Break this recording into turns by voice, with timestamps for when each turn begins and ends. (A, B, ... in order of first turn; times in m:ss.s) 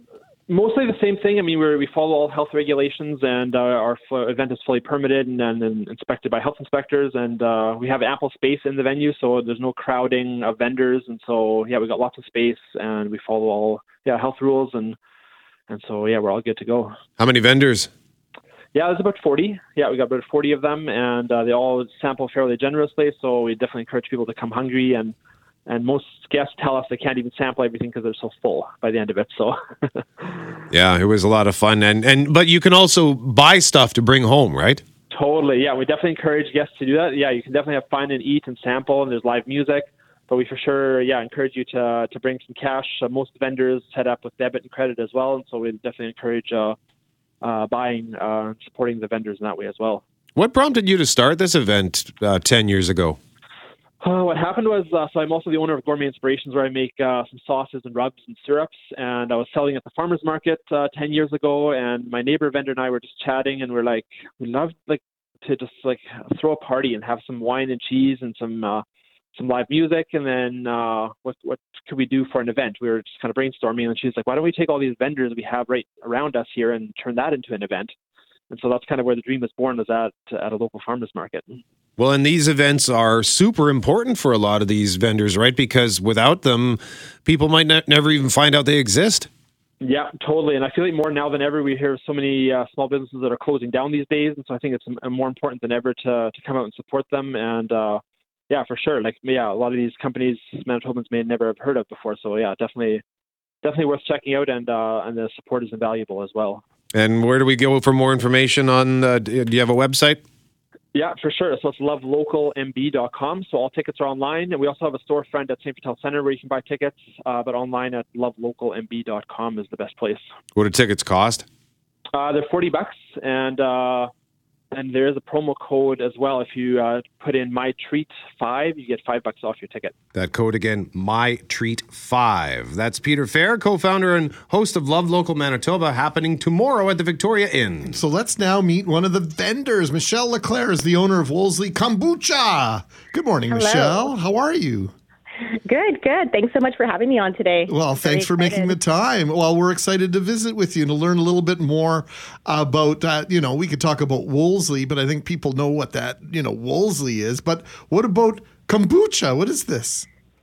0:00.5-0:15.0 A
0:15.7-0:17.0 A
0:17.2-0:17.9 B
0:18.7-0:25.1 A
0:25.7-0:30.5 A
0:30.7-0:34.8 B
0:35.1-0:46.8 A
0:47.4-0:50.0 A
0:50.4-0:53.2 B
0:54.0-1:08.8 A
1:09.3-1:17.9 A
1:18.5-1:21.6 A
1:22.0-1:29.3 B
1:29.8-1:43.0 A
1:43.6-1:46.6 A
1:46.9-1:50.2 B
1:50.9-2:00.2 A
2:00.6-2:01.4 B
2:02.1-2:04.1 A
2:04.7-2:09.9 A
2:10.1-2:18.0 B
2:17.9-2:24.9 C
2:23.5-2:24.1 D
2:25.7-2:28.8 D
2:27.7-2:40.1 C